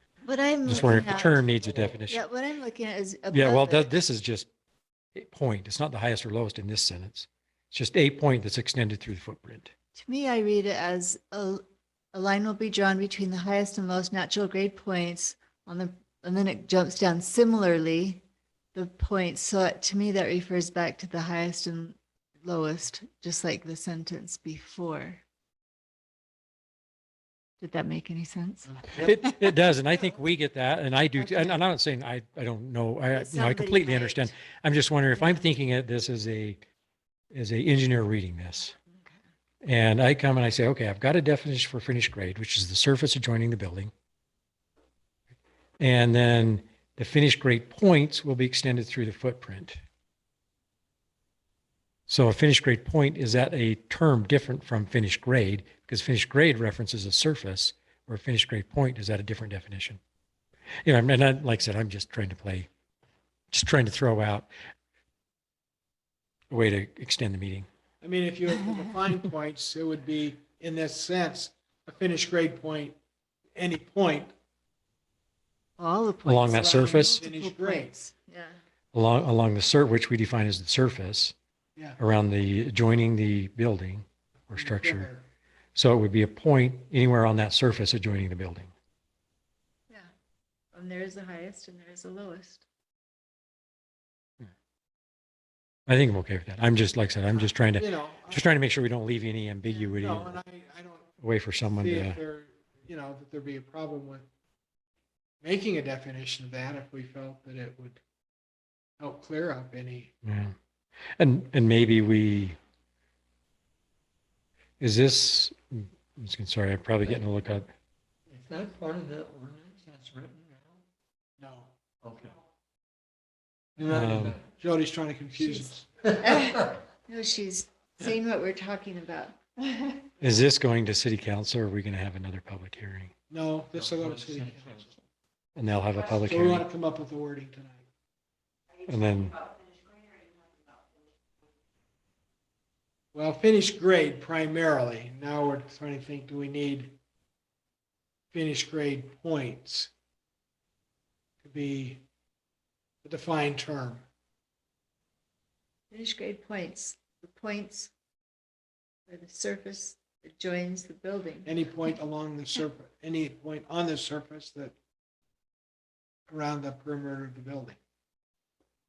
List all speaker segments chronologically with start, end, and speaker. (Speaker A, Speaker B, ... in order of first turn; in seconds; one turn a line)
Speaker A: 0.2-1.4
Speaker B: 0.7-2.2
Speaker C: 0.7-2.0
Speaker A: 2.1-4.0
Speaker B: 3.3-4.5
Speaker B: 5.2-9.7
Speaker A: 9.9-18.2
Speaker A: 18.7-25.2
Speaker A: 27.6-29.4
Speaker B: 28.9-36.6
Speaker A: 31.2-31.6
Speaker A: 33.1-34.3
Speaker B: 37.3-38.8
Speaker B: 39.6-43.9
Speaker B: 45.8-49.8
Speaker B: 52.1-60.0
Speaker B: 60.8-62.7
Speaker B: 63.5-64.5
Speaker B: 66.5-67.7
Speaker D: 68.0-73.0
Speaker D: 73.6-74.3
Speaker A: 75.8-78.6
Speaker B: 76.2-77.2
Speaker D: 76.6-78.0
Speaker B: 78.9-81.3
Speaker B: 82.0-85.1
Speaker D: 84.5-85.3
Speaker B: 85.8-88.7
Speaker A: 90.7-92.7
Speaker B: 95.9-100.4
Speaker D: 97.3-98.5
Speaker D: 99.8-101.1
Speaker B: 101.2-102.2
Speaker D: 101.7-104.3
Speaker D: 105.4-108.0
Speaker D: 109.0-110.1
Speaker B: 110.2-110.5
Speaker B: 111.2-112.6
Speaker B: 114.8-117.7
Speaker C: 118.3-120.8
Speaker D: 121.4-121.7
Speaker C: 122.0-122.4
Speaker C: 123.8-124.5
Speaker B: 123.9-124.4
Speaker D: 124.6-125.9
Speaker A: 125.4-125.7
Speaker C: 126.0-126.6
Speaker A: 126.2-130.1
Speaker B: 130.2-133.1
Speaker D: 133.3-134.8
Speaker C: 133.7-135.1
Speaker B: 135.6-136.7
Speaker D: 136.2-137.8
Speaker B: 138.8-139.4
Speaker D: 143.1-146.9
Speaker D: 148.3-149.9
Speaker D: 151.4-152.0
Speaker D: 153.0-154.0
Speaker A: 155.9-157.9
Speaker A: 159.1-161.5
Speaker D: 161.4-164.7
Speaker D: 166.3-167.8